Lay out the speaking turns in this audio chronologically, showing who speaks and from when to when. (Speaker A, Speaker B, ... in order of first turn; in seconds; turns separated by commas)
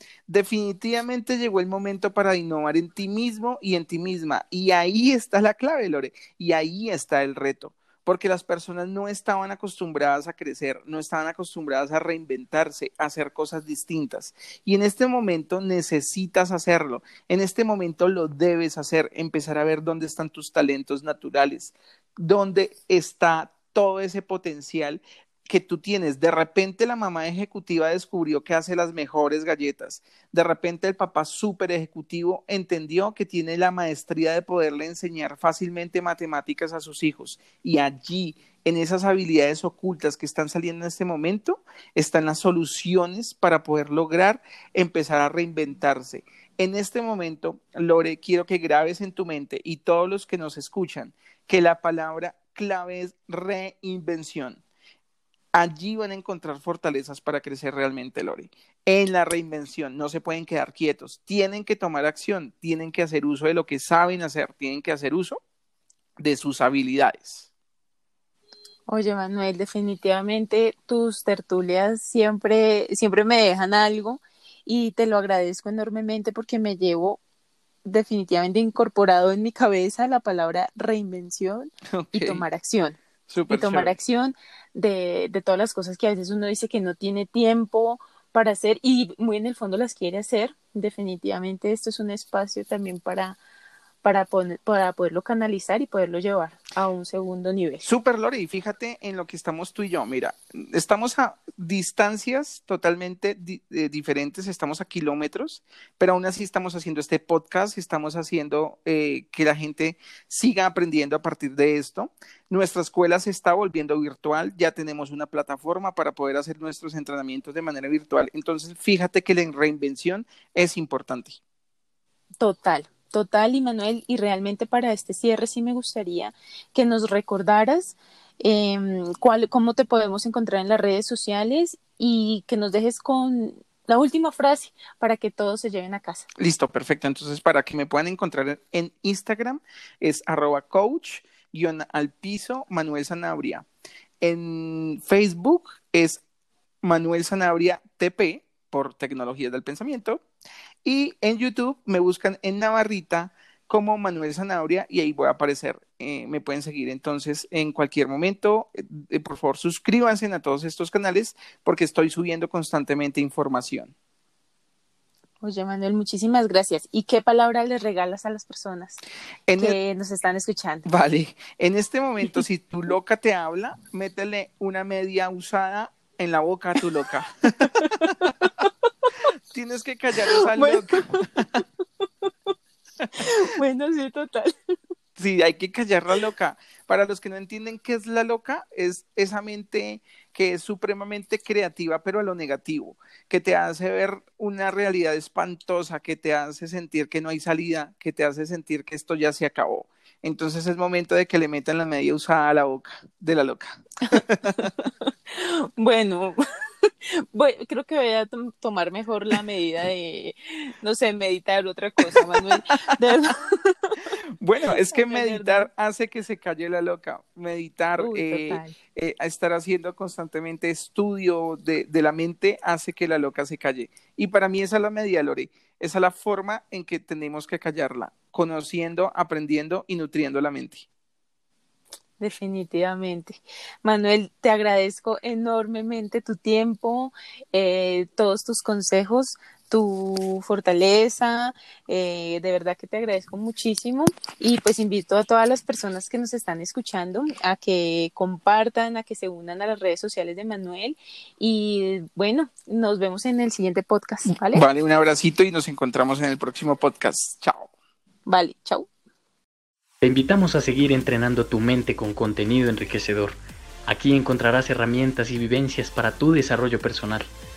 Speaker A: 0.3-54.6, Speaker A: 55.5-65.4, Speaker A: 66.2-67.5, Speaker B: 68.9-77.2, Speaker B: 77.8-93.4, Speaker A: 81.9-82.4, Speaker A: 83.3-84.0, Speaker B: 94.0-97.9, Speaker A: 97.8-121.4, Speaker B: 122.4-136.3, Speaker A: 136.4-143.7, Speaker A: 144.2-146.2, Speaker A: 146.8-150.2, Speaker A: 150.8-163.9, Speaker B: 165.4-169.0, Speaker A: 169.5-169.8, Speaker B: 169.6-170.9, Speaker A: 170.9-178.3, Speaker B: 177.6-179.1, Speaker A: 179.5-181.4, Speaker B: 180.3-182.5, Speaker B: 183.1-184.6, Speaker A: 185.2-204.7, Speaker B: 204.1-214.1, Speaker A: 212.1-212.9, Speaker A: 214.4-230.9, Speaker B: 214.7-215.7, Speaker B: 218.0-218.8, Speaker B: 232.2-254.7, Speaker A: 254.5-257.7, Speaker B: 258.3-258.9, Speaker C: 260.0-267.3